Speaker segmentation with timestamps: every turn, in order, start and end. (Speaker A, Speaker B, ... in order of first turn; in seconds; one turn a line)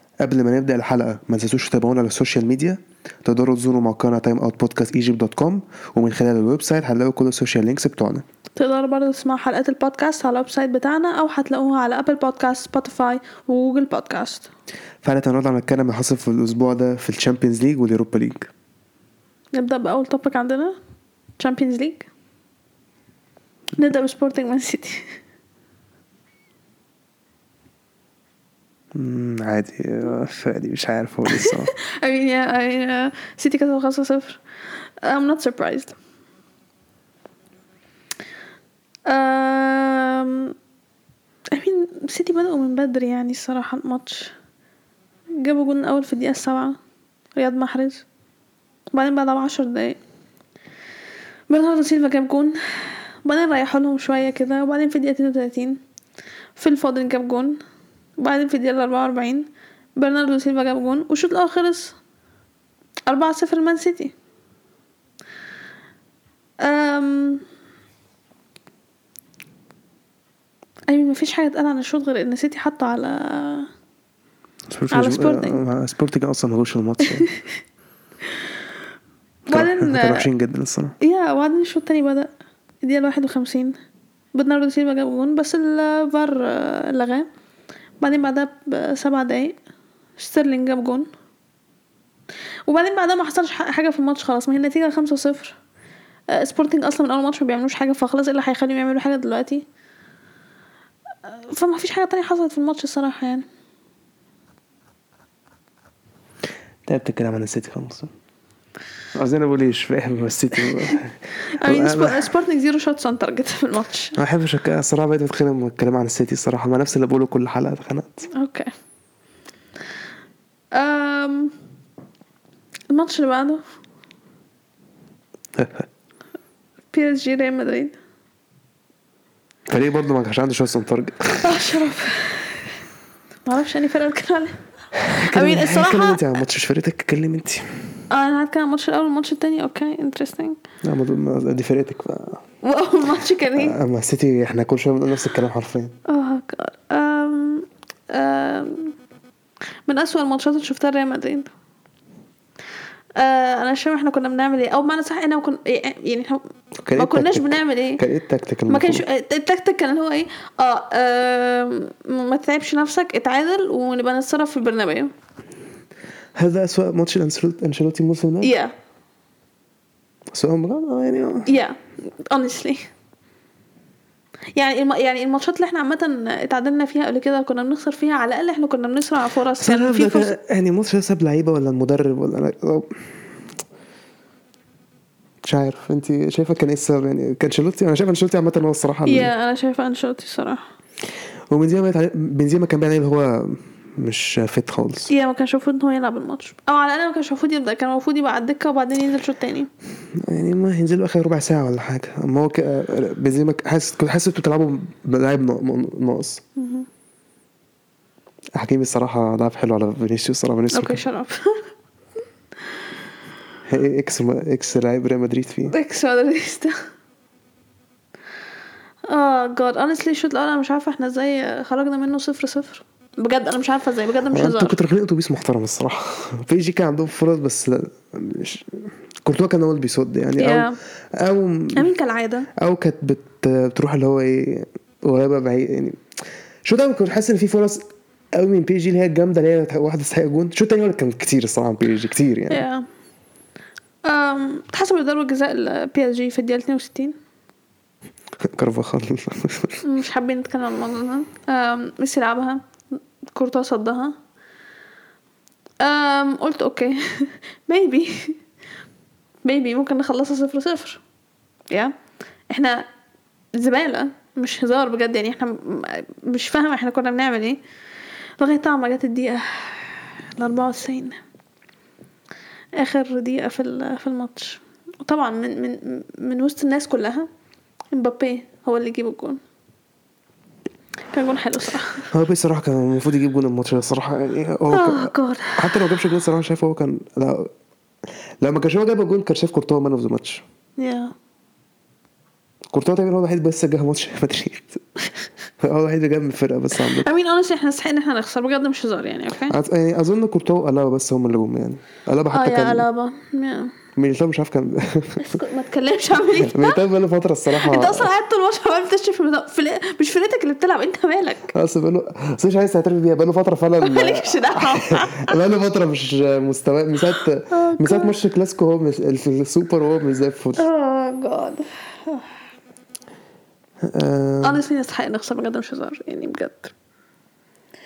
Speaker A: 0.2-8.2
Speaker B: 8.6-14.5
Speaker A: 15.0-18.5
Speaker B: 19.5-20.8
Speaker B: 21.4-22.1
Speaker B: 23.8-25.2
Speaker A: 28.9-31.7
Speaker B: 31.3-34.4
Speaker B: 35.0-35.9
Speaker B: 39.1-40.5
Speaker B: 41.5-44.3
Speaker B: 45.4-46.8
Speaker B: 47.4-48.0
Speaker B: 48.9-50.0
Speaker B: 51.5-55.8
Speaker B: 56.6-57.6
Speaker B: 58.2-62.0
Speaker B: 63.1-64.1
Speaker B: 66.6-67.4
Speaker B: 70.9-73.7
Speaker A: 74.7-77.3
Speaker B: 74.9-75.6
Speaker B: 79.5-80.3
Speaker A: 79.5-80.9
Speaker B: 81.0-83.8
Speaker B: 84.3-87.3
Speaker B: 88.0-89.6
Speaker B: 90.2-91.1
Speaker B: 92.7-95.6
Speaker B: 96.3-99.6
Speaker B: 101.3-103.5
Speaker A: 106.8-108.1
Speaker A: 109.1-112.3
Speaker B: 111.6-114.2
Speaker A: 114.2-118.3
Speaker B: 118.3-118.7
Speaker B: 120.7-121.5
Speaker B: 122.9-123.6
Speaker A: 125.5-125.9
Speaker B: 126.9-128.0
Speaker A: 129.7-131.5
Speaker B: 131.4-132.7
Speaker B: 133.4-134.6
Speaker A: 135.0-137.7
Speaker B: 135.3-136.2
Speaker B: 138.1-140.6
Speaker A: 140.8-142.4
Speaker B: 142.6-143.8
Speaker A: 143.5-145.9
Speaker B: 146.1-148.9
Speaker B: 149.9-151.5
Speaker B: 153.2-156.4
Speaker A: 156.8-159.0
Speaker B: 156.9-158.0
Speaker B: 158.7-165.1
Speaker A: 166.3-168.5
Speaker B: 168.4-168.7
Speaker A: 170.3-171.5
Speaker B: 171.4-172.9
Speaker B: 174.6-180.3
Speaker A: 179.6-183.0
Speaker A: 185.4-189.3
Speaker B: 189.1-190.6
Speaker A: 191.5-195.1
Speaker B: 195.1-199.7
Speaker A: 200.2-206.4
Speaker B: 206.6-206.8
Speaker A: 208.6-211.0
Speaker B: 210.7-211.6
Speaker A: 213.7-215.7
Speaker B: 215.7-216.7
Speaker B: 219.1-224.8
Speaker A: 224.3-231.9
Speaker B: 230.4-230.8
Speaker B: 231.7-232.5
Speaker A: 232.6-236.0
Speaker A: 236.6-237.8
Speaker A: 238.3-242.7
Speaker B: 242.5-242.8
Speaker B: 244.0-247.1
Speaker A: 248.4-249.8
Speaker B: 249.8-252.6
Speaker B: 253.3-254.1
Speaker B: 255.8-258.4
Speaker B: 259.4-261.0
Speaker B: 262.5-262.9
Speaker B: 263.5-267.6
Speaker B: 268.4-271.2
Speaker B: 272.8-277.3
Speaker B: 277.9-279.4
Speaker B: 281.1-282.1
Speaker A: 282.1-287.5
Speaker B: 284.7-285.9
Speaker A: 288.4-290.4
Speaker B: 290.8-291.1
Speaker A: 292.7-294.8
Speaker A: 295.6-297.1
Speaker B: 296.7-299.5
Speaker A: 299.4-302.9
Speaker B: 302.3-303.7
Speaker A: 303.9-305.4
Speaker B: 305.2-306.8
Speaker A: 306.4-308.1
Speaker B: 307.5-311.5
Speaker A: 311.5-320.6
Speaker B: 313.8-315.4
Speaker B: 317.5-318.1
Speaker B: 320.6-322.2
Speaker A: 323.8-324.6
Speaker B: 324.4-326.7